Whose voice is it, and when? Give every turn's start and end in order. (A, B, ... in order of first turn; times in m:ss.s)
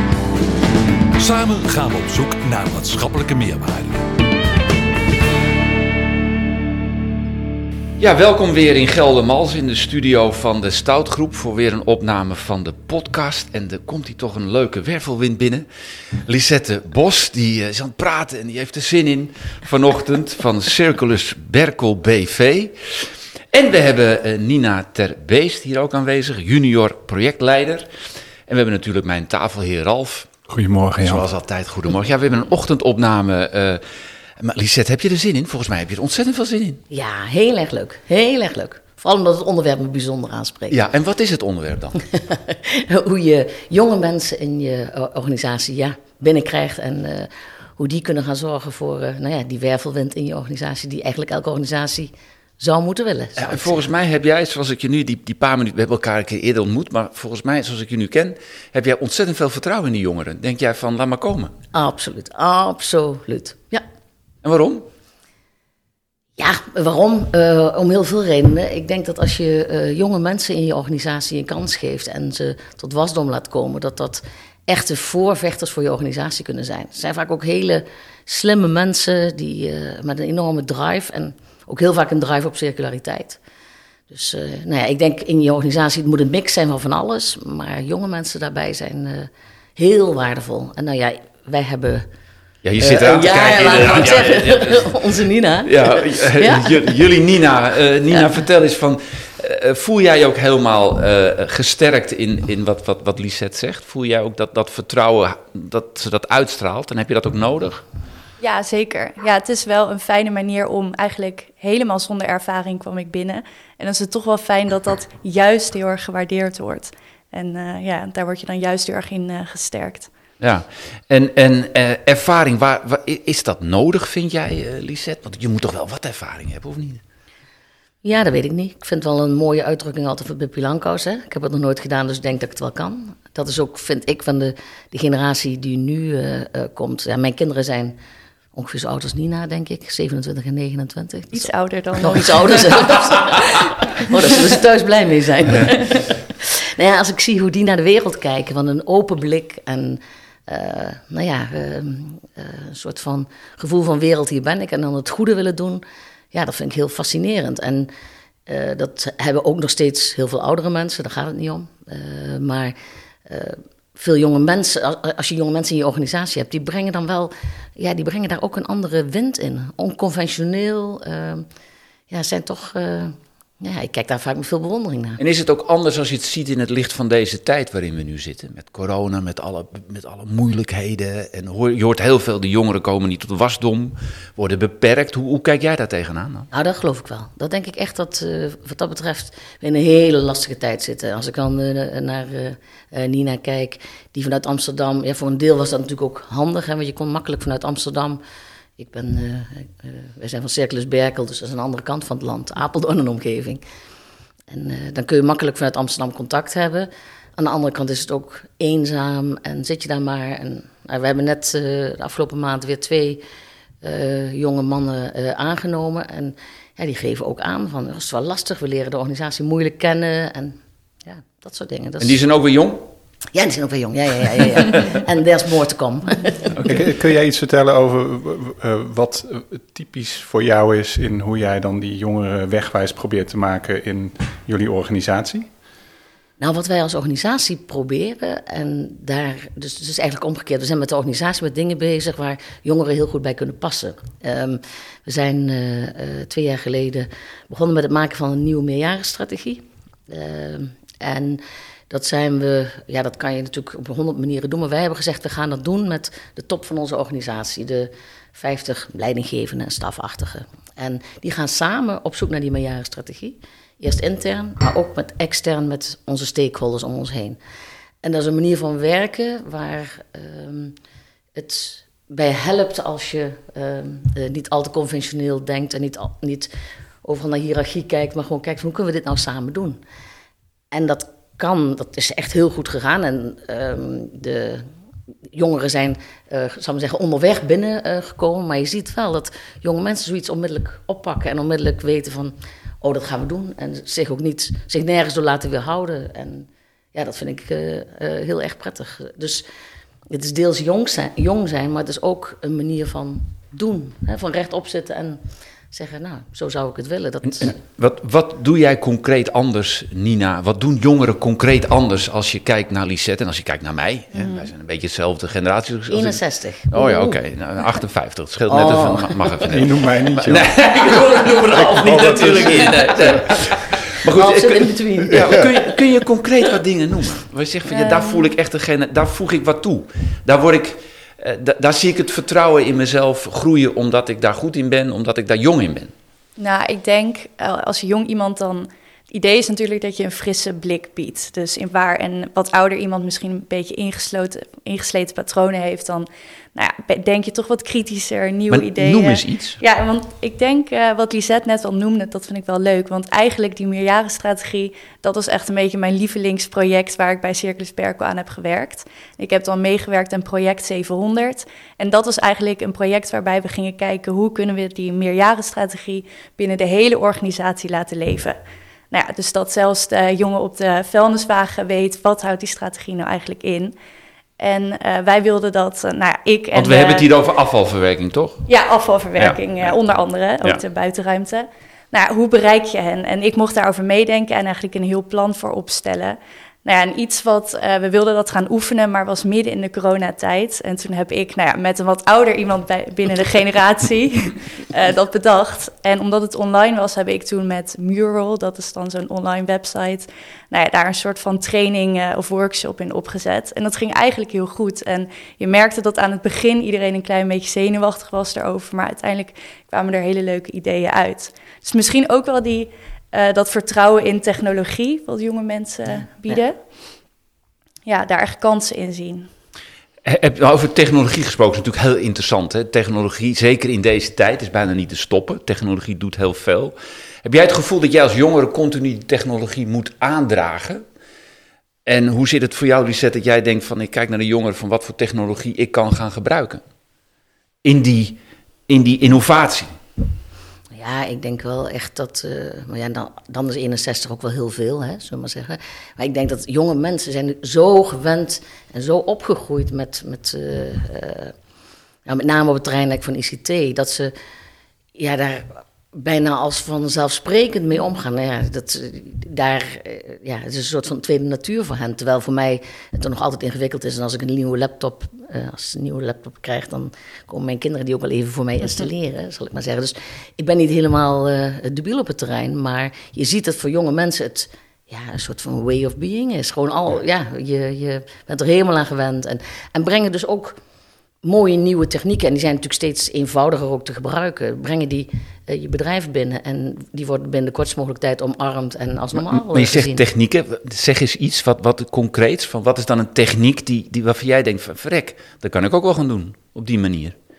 0:01.2-0:04.0 A
0:08.0-0:15.7 B
0:16.2-0:27.9 B
0:28.5-0:30.3 B
0:30.5-0:31.3 C
0:31.0-0:33.8 B
0:34.4-0:36.8 B
0:36.9-0:40.8 D
0:40.7-0:42.0 B
0:42.1-0:53.9 D
0:53.4-1:01.5 B
1:01.7-1:03.8 D
1:04.4-1:04.8 B
1:06.4-1:23.4 D
1:24.1-1:32.1 D
1:32.6-1:35.0 B
1:32.8-1:37.0 D
1:35.6-1:47.8 B
1:48.4-2:00.1 E
2:00.4-2:07.0 B
2:08.0-2:18.0 D
2:18.5-2:37.9 D
2:21.3-2:24.0 E
2:38.5-2:42.8 D
2:43.2-2:51.5 D
2:52.1-2:55.2 D
2:55.2-3:06.5 B
3:06.5-3:18.2 D
3:18.8-3:23.6 D
3:24.5-3:33.2 D
3:33.8-3:42.2 D
3:42.0-3:42.9 B
3:43.3-3:46.6 D
3:46.6-3:55.5 C
3:56.4-4:27.4 D
4:28.0-4:30.8 D
4:31.3-4:36.5 D
4:37.0-4:39.8 D
4:40.7-4:44.7 D
4:45.3-4:59.4 D
5:00.1-5:05.2 D
5:05.7-5:07.6 D
5:07.2-5:16.2 B
5:14.1-5:14.5 E
5:15.9-5:17.2 D
5:16.7-5:19.7 B
5:18.5-5:19.5 D
5:19.5-5:21.0 C
5:20.2-5:35.9 B
5:21.5-5:23.6 C
5:22.2-5:22.8 D
5:24.0-5:25.7 D
5:25.1-5:25.4 C
5:27.7-5:28.2 E
5:36.4-6:08.4 E
5:48.5-5:49.6 B
6:08.9-6:13.7 E
6:14.4-6:17.1 E
6:16.5-6:18.5 B
6:18.5-6:56.6 E
6:19.2-6:19.7 B
6:55.9-6:56.4 D
6:57.9-6:59.3 E
7:00.0-7:10.8 B
7:11.9-7:16.6 B
7:17.6-7:19.7 B
7:20.7-7:31.3 D
7:32.1-7:34.1 D
7:34.9-8:00.6 D
8:01.2-8:10.0 D
8:09.3-8:17.2 B